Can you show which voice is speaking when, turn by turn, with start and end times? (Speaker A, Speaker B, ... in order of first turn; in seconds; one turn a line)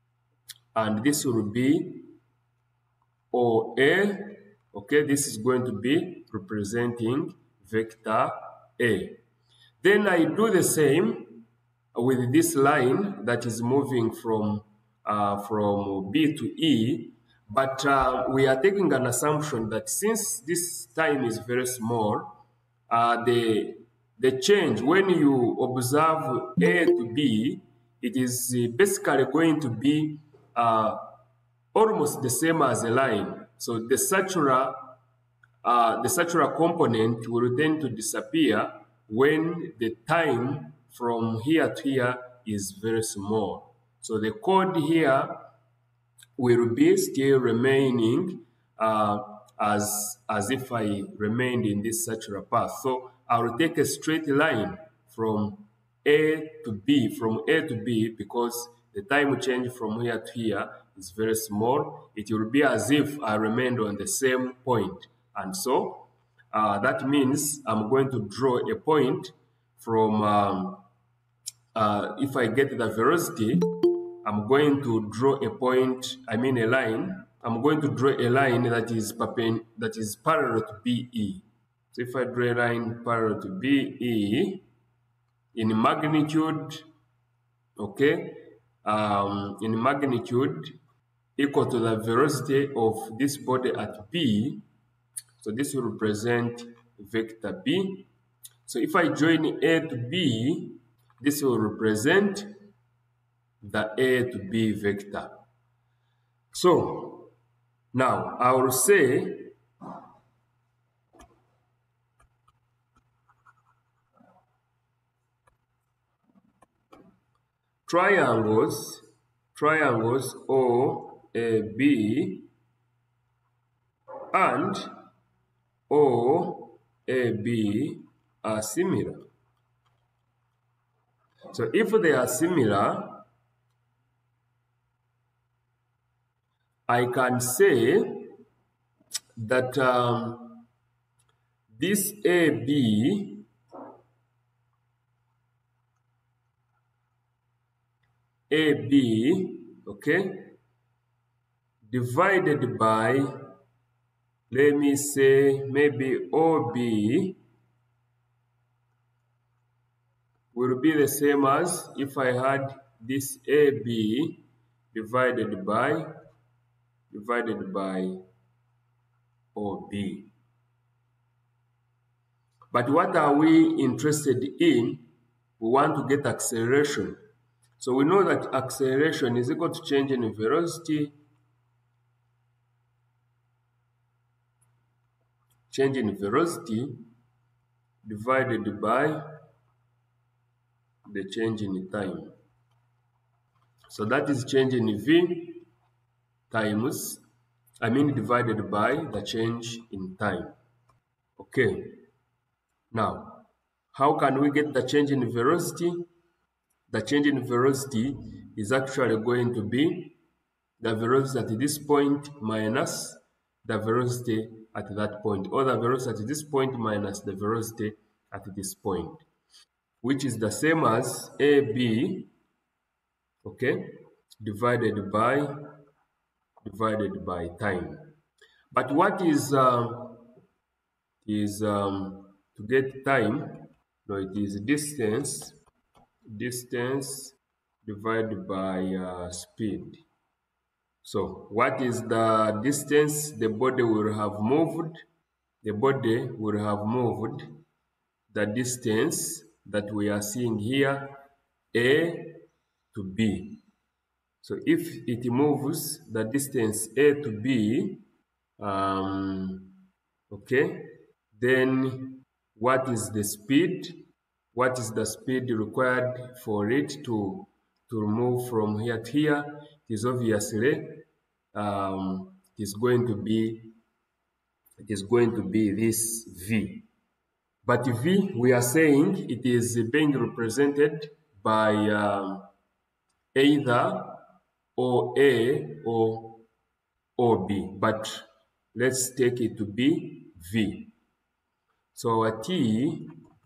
Speaker A: 0.7-2.1
Speaker A: 3.3-9.2
Speaker A: 9.8-22.4
Speaker A: 22.9-31.0
Speaker A: 31.7-35.0
Speaker A: 35.6-45.5
Speaker A: 46.4-70.8
Speaker A: 71.7-84.7
Speaker A: 85.5-86.8
Speaker A: 87.8-90.8
Speaker A: 91.4-94.7
Speaker A: 95.4-98.1
Speaker A: 98.7-102.5
Speaker A: 103.6-105.4
Speaker A: 106.5-107.3
Speaker A: 107.9-109.5
Speaker A: 117.8-122.5
Speaker A: 124.3-125.0
Speaker A: 125.9-129.2
Speaker A: 131.5-133.2
Speaker A: 136.9-138.4
Speaker A: 139.4-140.7
Speaker A: 141.7-143.5
Speaker A: 148.5-150.6
Speaker A: 151.8-153.4
Speaker A: 154.5-157.4
Speaker A: 160.5-166.1
Speaker A: 167.1-168.2
Speaker A: 169.5-170.3
Speaker A: 172.7-177.2
Speaker A: 177.8-181.2
Speaker A: 185.7-187.1
Speaker A: 188.0-189.3
Speaker A: 191.1-192.3
Speaker A: 193.9-195.7
Speaker A: 196.5-197.2
Speaker A: 197.8-200.5
Speaker A: 201.4-202.0
Speaker A: 202.9-206.1
Speaker A: 206.9-210.2
Speaker A: 210.8-219.2
Speaker A: 220.0-222.3
Speaker A: 223.4-225.7
Speaker A: 226.6-228.2
Speaker A: 228.7-230.3
Speaker A: 231.2-235.6
Speaker A: 236.3-240.0
Speaker A: 241.0-245.0
Speaker A: 245.6-247.6
Speaker A: 248.3-251.2
Speaker A: 251.7-253.6
Speaker A: 254.4-258.0
Speaker A: 258.6-273.8
Speaker A: 274.8-276.9
Speaker A: 277.6-282.5
Speaker A: 283.3-284.2
Speaker A: 284.8-286.4
Speaker A: 287.2-290.9
Speaker A: 291.9-293.1